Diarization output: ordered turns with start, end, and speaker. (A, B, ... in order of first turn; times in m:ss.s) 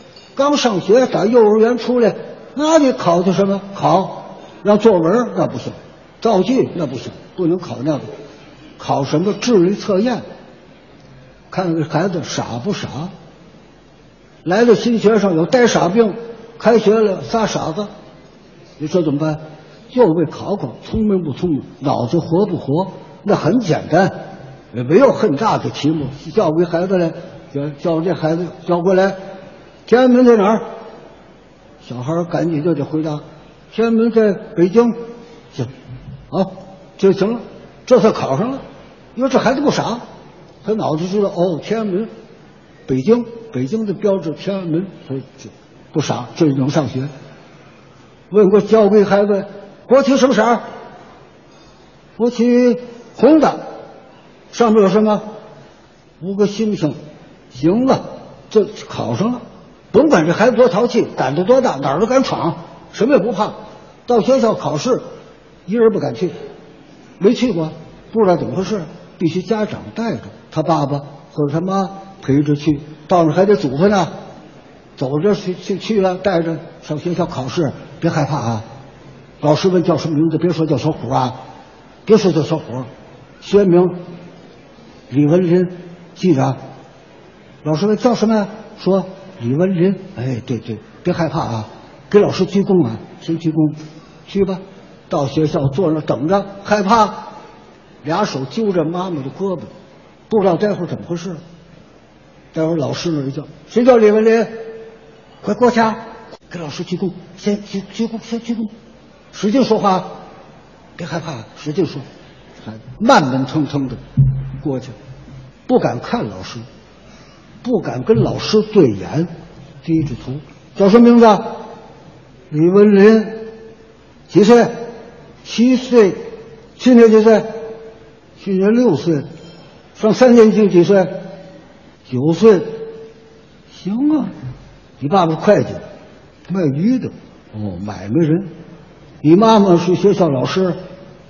0:00.3-0:08.0 A
0:08.8-0:10.2 A
0:11.5-0:13.1 A
0:14.4-0:17.9 A
0:18.8-0:19.4 A
0:19.9-0:24.2 A
0:24.7-0:29.2 A
0:29.9-0:30.6 A
0:31.8-0:34.9 A
0:36.3-0:38.6 A
0:39.2-0:40.0 A
0:40.6-0:42.1 A
0:42.9-0:47.1 A
0:48.3-0:50.6 A
0:52.2-0:53.6 A
0:54.5-0:55.2 A
0:56.2-0:57.0 A
0:57.5-1:03.5 A
1:04.1-1:05.0 A
1:05.6-1:06.3 A
1:07.2-1:14.1 A
1:15.0-1:18.6 A
1:19.4-1:21.4 A
1:22.0-1:22.9 A
1:23.4-1:24.0 A
1:25.1-1:26.6 A
1:27.6-1:33.8 A
1:34.3-1:37.2 A
1:38.0-1:39.7 A
1:40.3-1:41.4 A
1:42.5-1:44.5 A
1:45.4-1:46.0 A
1:46.5-1:48.7 A
1:49.3-1:50.1 A
1:51.0-1:52.0 A
1:52.6-1:54.0 A
1:54.6-1:54.9 A
1:55.7-1:56.6 A
1:57.6-1:59.3 A
1:59.8-2:01.5 A
2:02.5-2:03.5 A
2:04.3-2:04.7 A
2:05.4-2:06.2 A
2:06.8-2:07.5 A
2:08.4-2:09.2 A
2:10.0-2:11.1 A
2:12.1-2:12.8 A
2:13.7-2:14.3 A
2:15.0-2:15.8 A
2:16.5-2:18.5 A
2:19.2-2:20.8 A